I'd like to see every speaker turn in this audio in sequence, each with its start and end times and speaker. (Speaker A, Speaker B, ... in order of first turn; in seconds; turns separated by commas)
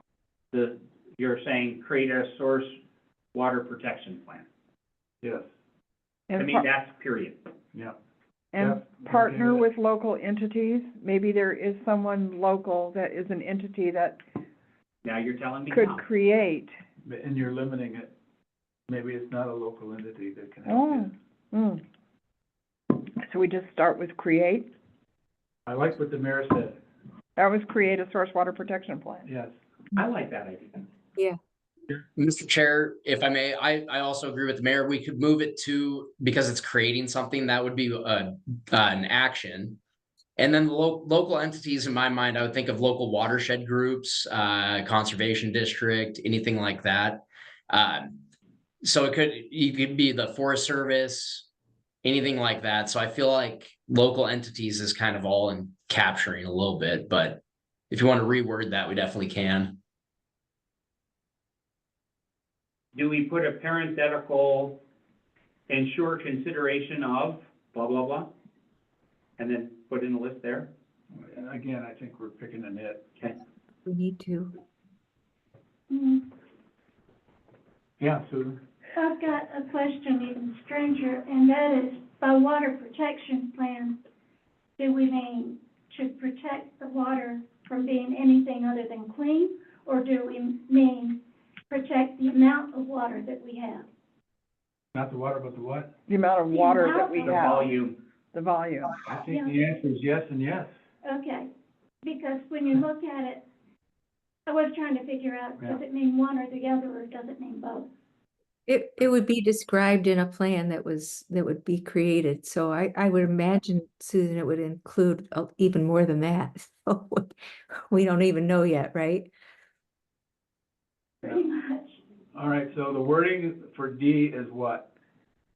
Speaker A: 0.5-2.8, Speaker A: 3.3-4.5, Speaker B: 6.3-6.7, Speaker A: 6.4-7.4, Speaker B: 8.5-14.2, Speaker C: 8.6-9.7, Speaker A: 15.0-16.0, Speaker B: 15.7-16.7, Speaker C: 17.1-18.1, Speaker C: 18.9-21.1, Speaker B: 20.7-21.8, Speaker B: 23.0-24.7, Speaker C: 25.7-26.8, Speaker B: 27.4-29.3, Speaker C: 29.2-29.6, Speaker A: 29.9-30.8, Speaker D: 32.2-39.8, Speaker D: 40.4-48.2, Speaker D: 48.8-51.5, Speaker D: 52.0-59.8, Speaker A: 63.0-64.8, Speaker A: 65.7-68.3, Speaker A: 69.4-70.7, Speaker C: 71.2-73.2, Speaker E: 73.9-74.5, Speaker F: 75.9-76.2, Speaker C: 78.0-78.6, Speaker F: 79.0-84.0, Speaker F: 84.8-93.9, Speaker C: 94.9-95.9, Speaker B: 96.1-97.7, Speaker F: 96.5-97.8, Speaker A: 97.3-98.0, Speaker B: 98.3-99.0, Speaker C: 99.1-100.7, Speaker F: 99.2-99.8, Speaker F: 101.0-101.5, Speaker F: 102.0-103.4, Speaker F: 104.5-107.9, Speaker E: 108.7-119.3, Speaker F: 121.3-121.9, Speaker C: 122.3-124.9